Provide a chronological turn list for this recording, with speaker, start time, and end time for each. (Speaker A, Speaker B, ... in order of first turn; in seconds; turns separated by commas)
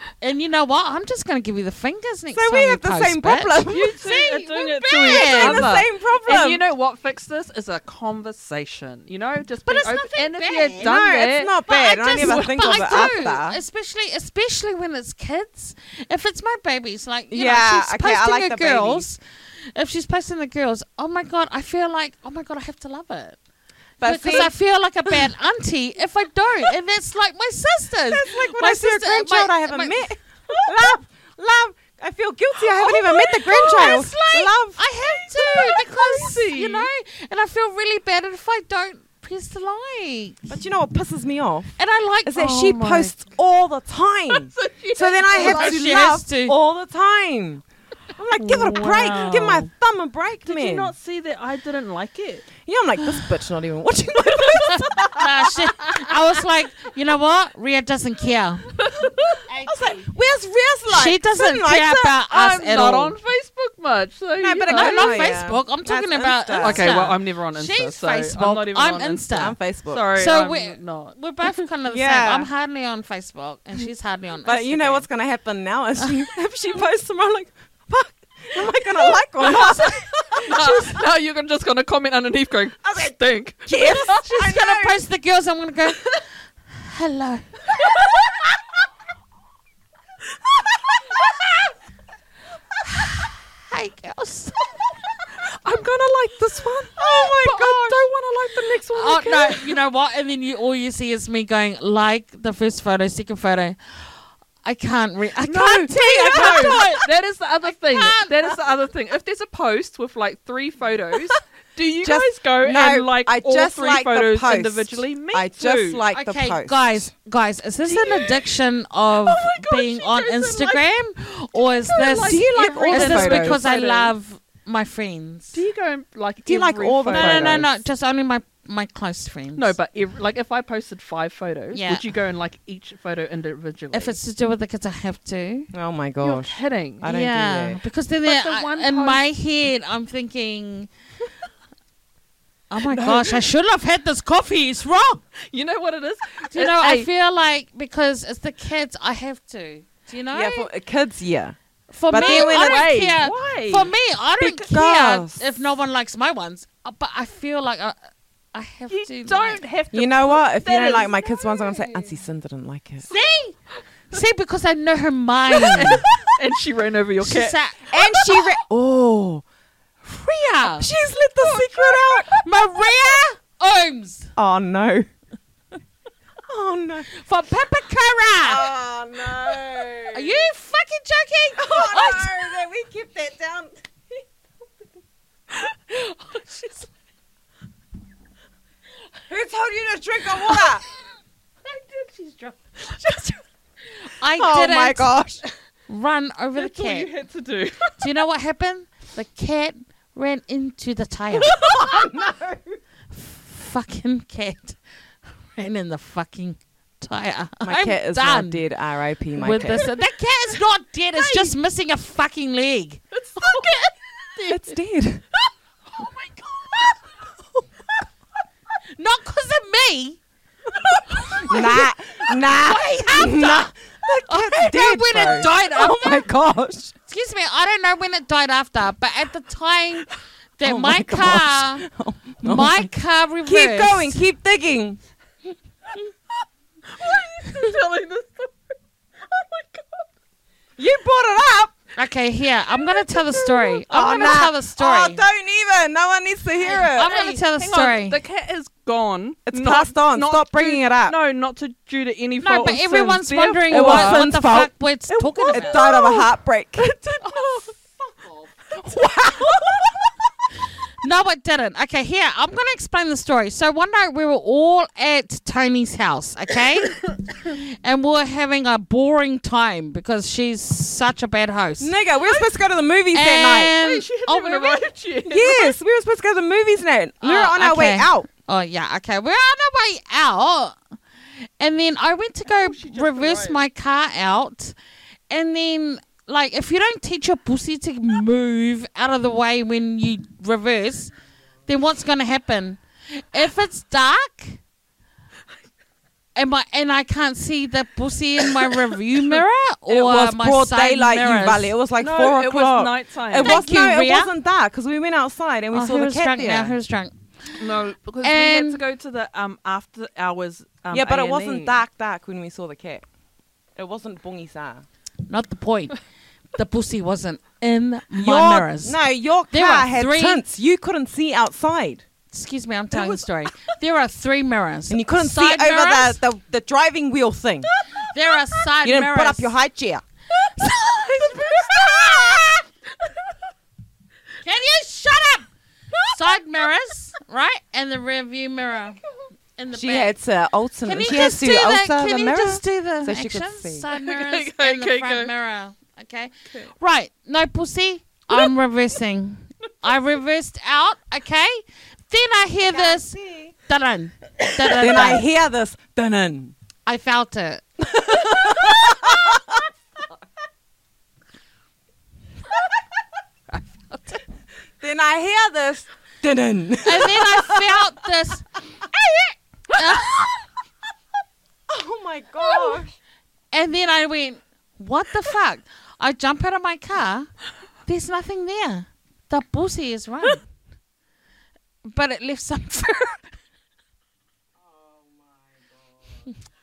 Speaker A: 0.2-5.7, Speaker B: 2.3-4.0, Speaker C: 3.7-11.6, Speaker B: 5.0-6.6, Speaker A: 9.6-10.9, Speaker B: 10.8-13.6, Speaker A: 11.7-19.2, Speaker C: 12.1-13.2, Speaker B: 17.3-19.1, Speaker A: 19.7-23.4, Speaker B: 24.0-24.5, Speaker A: 24.0-30.1, Speaker B: 28.1-35.7, Speaker A: 32.8-40.5, Speaker C: 35.4-36.9, Speaker B: 40.5-47.6, Speaker A: 41.8-42.6, Speaker C: 42.4-43.2, Speaker C: 44.3-45.8, Speaker A: 45.3-46.5, Speaker B: 48.1-50.9, Speaker C: 48.3-49.7, Speaker C: 50.4-52.5, Speaker B: 52.6-55.3, Speaker C: 54.3-54.6, Speaker A: 54.6-58.8, Speaker C: 58.8-59.4, Speaker A: 59.5-60.0, Speaker B: 59.6-62.1, Speaker A: 60.9-63.1, Speaker C: 62.3-65.3, Speaker B: 64.4-66.9, Speaker A: 64.7-69.5, Speaker C: 66.6-71.6, Speaker B: 69.3-70.1, Speaker A: 70.1-75.0, Speaker B: 71.9-72.5, Speaker B: 74.4-80.9, Speaker A: 79.4-81.0, Speaker C: 80.4-84.2, Speaker B: 82.8-83.1, Speaker B: 83.7-85.0, Speaker A: 84.2-86.1, Speaker A: 86.7-88.1, Speaker C: 87.8-88.1, Speaker A: 92.8-94.7, Speaker C: 95.4-99.8, Speaker B: 97.0-98.0, Speaker A: 98.9-107.0, Speaker B: 105.4-106.9, Speaker C: 106.3-116.0, Speaker A: 107.7-108.3, Speaker B: 112.0-117.1, Speaker A: 116.1-125.6, Speaker C: 117.8-118.5, Speaker C: 119.2-120.8, Speaker C: 121.9-124.1, Speaker B: 122.2-123.6, Speaker C: 125.5-127.7, Speaker B: 126.4-127.7, Speaker A: 127.1-129.7, Speaker C: 129.6-134.2, Speaker A: 131.7-132.1, Speaker A: 133.9-135.7, Speaker B: 135.7-137.8, Speaker C: 136.2-137.1, Speaker A: 137.0-140.9, Speaker C: 138.2-139.2, Speaker A: 142.7-145.2, Speaker C: 142.8-143.4, Speaker C: 145.4-147.1, Speaker A: 146.5-150.7, Speaker B: 150.3-151.6, Speaker A: 151.9-157.9, Speaker B: 152.1-152.9, Speaker C: 152.1-153.9, Speaker B: 154.4-155.7, Speaker A: 158.5-159.6, Speaker C: 158.9-161.2, Speaker B: 159.9-163.1, Speaker A: 163.1-163.6, Speaker A: 164.1-166.0, Speaker C: 165.6-168.4, Speaker A: 167.2-167.9, Speaker B: 167.9-169.4, Speaker A: 170.0-170.9, Speaker B: 170.8-172.3, Speaker C: 171.4-172.4, Speaker A: 172.4-174.3, Speaker B: 174.3-175.1, Speaker B: 176.5-177.1, Speaker A: 177.1-178.7, Speaker B: 178.4-180.4, Speaker A: 180.1-182.4, Speaker B: 181.6-183.7, Speaker C: 185.6-186.4, Speaker B: 189.3-190.8, Speaker C: 190.5-190.7, Speaker C: 191.6-193.4, Speaker A: 194.0-195.1, Speaker B: 194.3-195.4, Speaker A: 195.9-197.1, Speaker C: 196.6-198.1, Speaker A: 198.0-201.6, Speaker C: 201.4-201.9, Speaker B: 201.4-202.8, Speaker A: 203.1-204.8, Speaker A: 205.5-208.6, Speaker B: 207.6-209.9, Speaker A: 209.4-213.9, Speaker C: 211.1-211.6, Speaker C: 213.1-214.7, Speaker B: 214.5-215.2, Speaker C: 215.3-217.1, Speaker A: 218.9-220.2, Speaker C: 220.7-221.5, Speaker B: 221.4-226.9, Speaker A: 221.5-221.8, Speaker A: 222.5-223.7, Speaker A: 224.3-226.2, Speaker A: 227.1-231.9, Speaker B: 230.6-232.9, Speaker A: 232.4-234.2, Speaker B: 233.4-235.0, Speaker C: 236.9-240.1, Speaker B: 240.8-241.7, Speaker A: 241.9-245.2, Speaker C: 242.8-243.8, Speaker B: 243.8-247.1, Speaker C: 246.7-254.3, Speaker A: 246.9-248.2, Speaker B: 249.5-251.2, Speaker A: 252.4-255.8, Speaker B: 253.7-254.7, Speaker C: 255.1-260.1, Speaker B: 255.5-257.0, Speaker B: 258.8-260.0, Speaker A: 261.0-271.9, Speaker B: 271.8-273.8, Speaker C: 272.2-272.5, Speaker A: 273.1-274.8, Speaker C: 273.8-275.7, Speaker B: 275.3-278.3, Speaker A: 277.2-280.8, Speaker A: 281.4-284.7, Speaker C: 282.4-283.6, Speaker A: 285.3-291.1, Speaker A: 291.7-294.6, Speaker A: 296.4-301.7, Speaker B: 299.9-306.8, Speaker C: 302.0-303.6, Speaker A: 303.4-304.3, Speaker A: 305.7-307.6, Speaker C: 307.6-311.8, Speaker A: 308.2-308.8, Speaker B: 310.9-313.0, Speaker B: 313.8-314.8, Speaker A: 315.3-316.0, Speaker A: 316.5-319.0, Speaker B: 318.2-322.0, Speaker A: 319.5-320.4, Speaker A: 322.3-326.2, Speaker B: 324.9-327.7, Speaker A: 328.0-329.5, Speaker B: 328.8-330.0, Speaker C: 330.4-333.4, Speaker B: 331.3-332.5, Speaker A: 334.4-335.5, Speaker C: 335.9-336.4, Speaker A: 336.1-339.0, Speaker A: 339.5-340.1, Speaker B: 339.7-343.9, Speaker A: 340.8-355.2, Speaker C: 343.9-345.3, Speaker B: 352.7-353.5, Speaker B: 354.7-356.5, Speaker A: 356.9-357.6, Speaker B: 357.8-359.6, Speaker B: 364.8-367.7, Speaker A: 366.8-368.5, Speaker A: 369.7-370.3, Speaker B: 371.7-372.9, Speaker A: 373.5-377.3, Speaker A: 377.9-380.4, Speaker A: 381.8-383.3